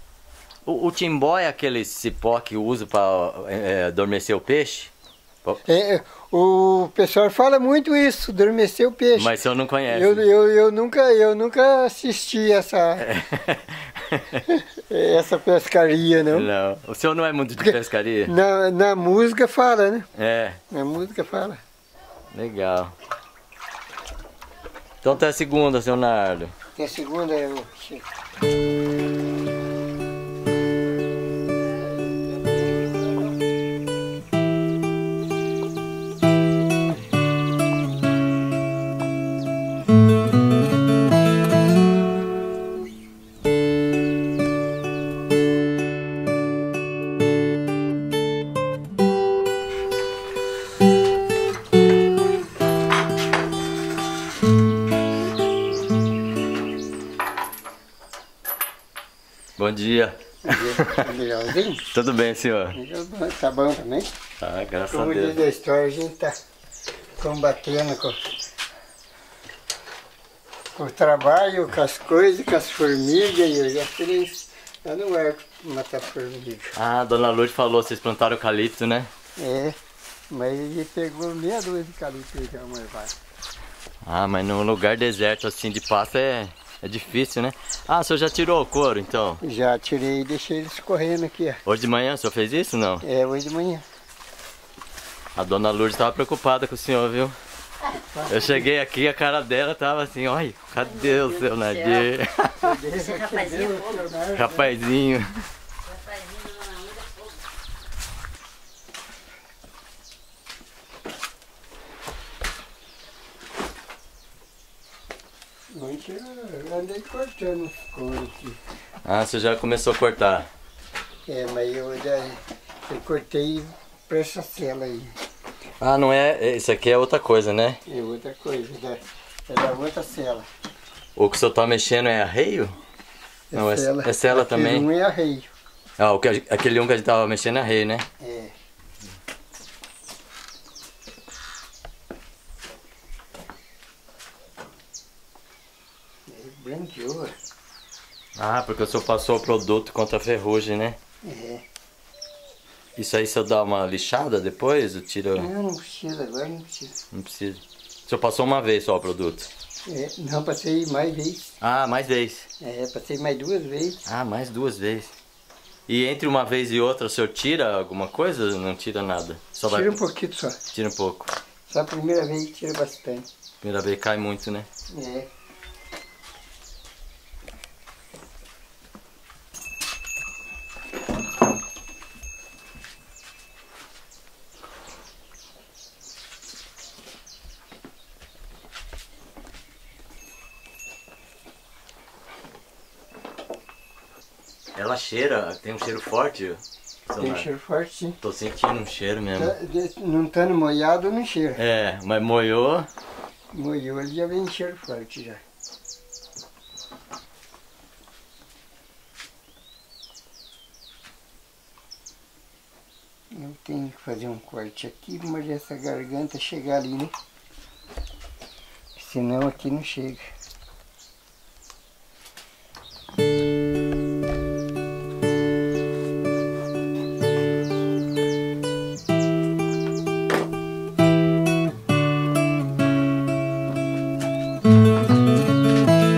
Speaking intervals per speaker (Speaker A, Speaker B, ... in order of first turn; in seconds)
Speaker A: 0.7-4.9, 9.2-10.3, 13.0-14.4, 16.3-18.3, 20.1-20.6, 22.3-22.9, 25.0-26.5, 59.6-61.1, 61.9-62.8, 64.4-65.4, 76.8-79.1, 84.0-89.4, 91.7-93.0, 95.3-97.4, 98.3-102.7, 104.3-105.5, 119.0-120.5, 125.8-127.8, 131.2-132.7, 133.5-134.9, 136.0-138.1, 148.4-151.0, 152.9-155.5, 157.1-159.5, 161.6-162.5, 164.1-165.1, 165.9-170.0, 170.7-171.3, 173.6-174.7, 194.7-197.5, 198.2-199.5, 201.6-202.9
Speaker B: 5.6-9.3, 9.9-13.1, 14.4-16.5, 17.6-20.1, 20.7-21.6, 26.7-28.1, 60.4-61.8, 62.7-64.2, 64.9-66.3, 67.2-68.2, 70.7-76.8, 79.4-79.8, 80.3-83.1, 89.4-91.6, 93.0-93.8, 98.1-98.7, 102.6-104.7, 115.7-118.6, 121.3-125.1, 127.8-130.5, 133.5-135.5, 138.2-138.5, 146.3-147.3, 151.2-151.6, 155.3-156.9, 159.8-161.6, 162.6-164.0, 169.7-170.6, 171.7-173.3, 174.9-175.3, 197.2-198.2, 199.3-201.6, 203.5-205.4, 213.3-217.1, 219.0-220.3
Speaker C: 100.8-102.2, 102.9-104.1, 105.8-107.3